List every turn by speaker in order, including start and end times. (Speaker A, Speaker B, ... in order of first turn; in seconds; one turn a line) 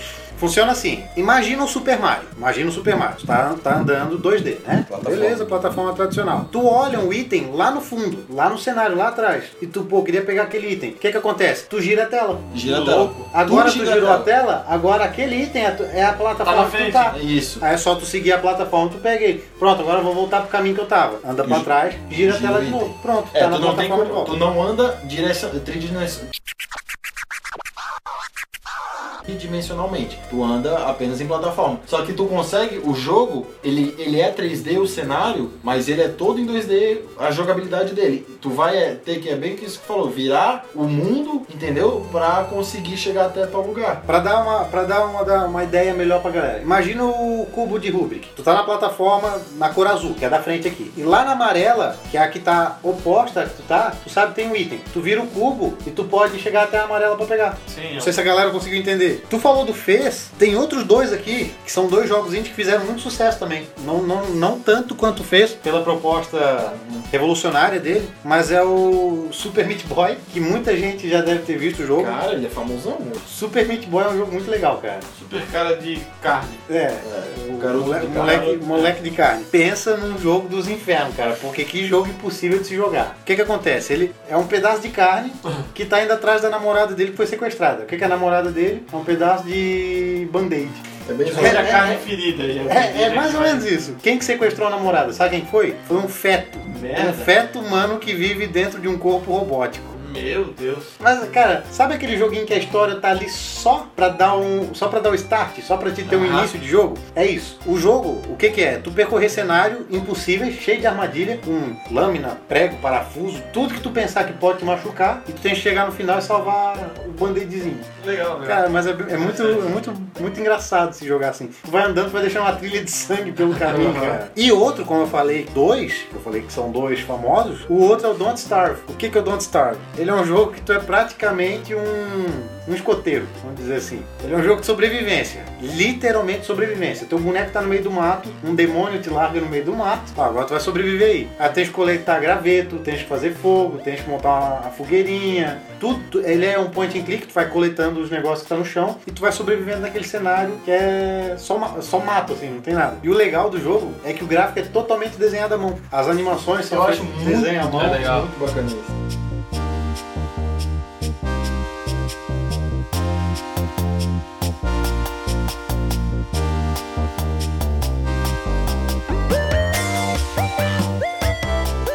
Speaker A: 0.3-12.5
Speaker B: 4.9-5.6
Speaker B: 12.5-14.3
Speaker C: 12.6-13.3
Speaker A: 13.3-24.4
Speaker C: 16.4-17.1
Speaker B: 17.1-17.6
Speaker B: 21.4-26.3
Speaker B: 29.2-44.0
Speaker A: 44.1-72.2
Speaker C: 57.7-58.2
Speaker B: 66.6-67.1
Speaker B: 72.0-73.2
Speaker A: 73.2-75.1
Speaker C: 75.1-76.6
Speaker A: 76.7-92.0
Speaker B: 77.0-78.6
Speaker C: 78.0-78.9
Speaker B: 91.0-91.9
Speaker C: 91.3-93.7
Speaker A: 92.7-100.0
Speaker C: 96.7-97.3
Speaker C: 99.9-100.9
Speaker A: 101.0-117.9
Speaker C: 106.0-106.5
Speaker C: 118.0-119.7
Speaker A: 118.4-158.1
Speaker C: 123.6-124.2
Speaker B: 156.7-158.9
Speaker C: 157.8-158.3